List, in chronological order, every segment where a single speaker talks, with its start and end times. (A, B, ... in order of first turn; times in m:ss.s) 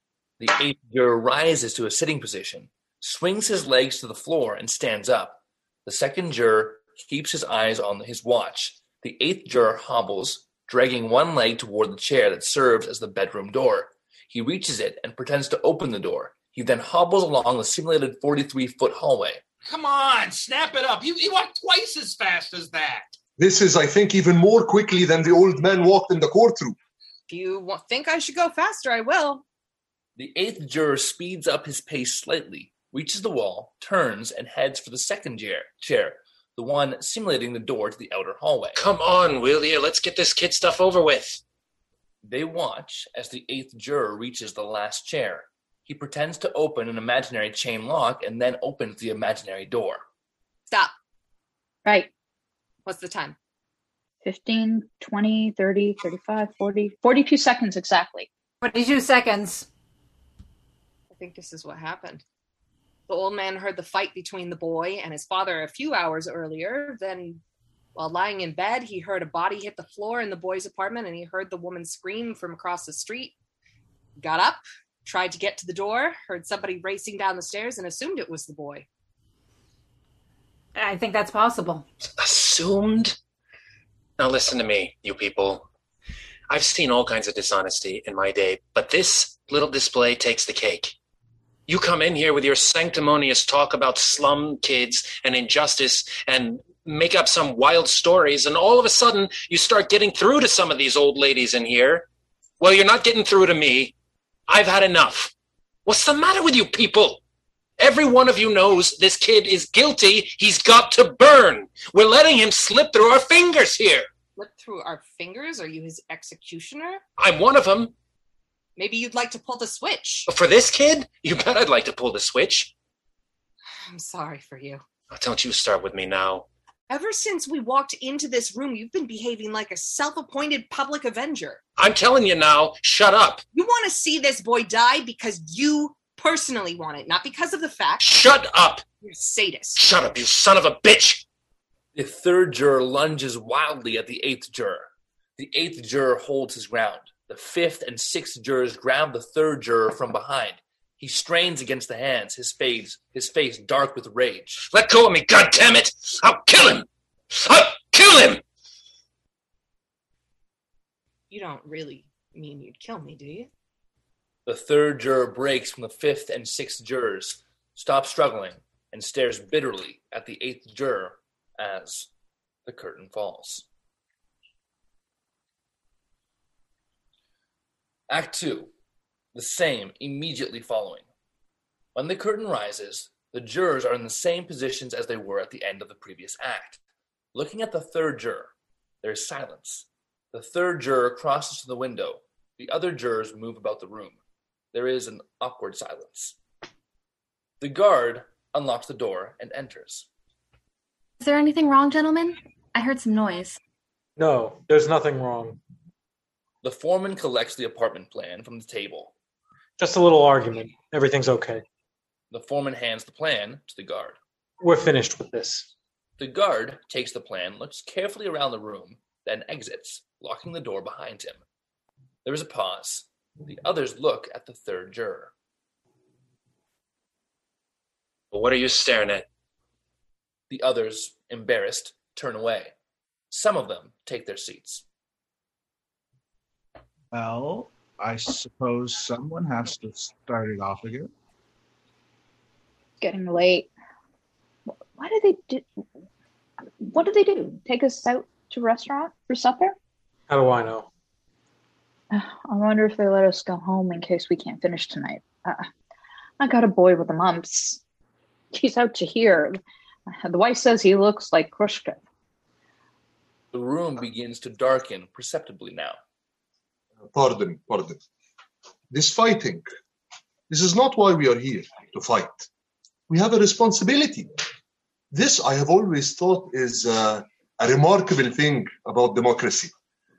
0:00.4-0:19.4 A
0:19.6-0:23.2 B
0:23.4-0:26.8 C
0:27.3-0:29.4 D
0:30.2-0:38.8 A
0:38.8-0:41.4 E
0:42.2-0:50.0 A
0:51.8-0:52.1 F
0:52.9-0:53.4 D
0:54.2-0:58.3 F
0:58.6-0:59.7 G
1:01.1-1:02.2 D
1:03.1-1:07.4 D
1:08.0-1:13.3 D
1:14.2-1:18.9 D
1:20.8-1:21.8 G
1:22.2-1:23.2 E
1:24.2-1:25.7 E
1:26.5-1:31.0 E
1:31.7-1:42.1 E
1:42.6-1:43.9 E
1:44.5-1:45.3 E
1:45.9-1:47.2 E
1:47.8-1:54.1 E
1:54.4-1:57.0 D
1:57.2-1:57.9 E
1:58.8-2:00.3 D
2:00.3-2:02.7 E
2:03.8-2:04.8 D
2:05.1-2:06.5 E
2:06.9-2:11.6 D
2:11.8-2:13.4 E
2:13.5-2:18.0 D
2:18.0-2:18.8 E
2:19.0-2:19.8 D
2:19.8-2:21.2 E
2:21.9-2:34.6 A
2:34.7-2:38.4 E
2:41.3-2:43.5 D
2:44.5-2:52.1 A
2:52.6-2:53.6 A
2:58.1-2:58.7 A
2:59.3-3:01.1 A
3:02.0-3:06.8 A
3:07.3-3:08.5 A
3:09.0-3:14.2 A
3:14.7-3:16.4 A
3:17.6-3:20.1 A
3:21.2-3:23.6 H
3:24.2-3:25.6 I
3:26.6-3:29.1 A
3:29.8-3:31.6 I
3:32.3-3:34.2 A
3:34.6-3:35.7 I
3:36.2-3:41.4 A
3:42.2-3:45.3 A
3:48.3-3:49.3 E
3:50.5-3:52.7 A
3:53.3-3:54.8 A
3:57.1-4:01.1 J
4:03.0-4:03.7 F
4:04.9-4:05.8 F
4:06.8-4:09.8 F
4:10.3-4:10.9 I
4:12.1-4:15.7 F
4:16.4-4:17.8 F
4:18.5-4:22.0 F
4:23.5-4:26.0 A
4:27.1-4:28.0 C
4:28.9-4:29.7 C
4:30.5-4:32.5 C
4:33.1-4:34.3 C
4:35.1-4:39.7 C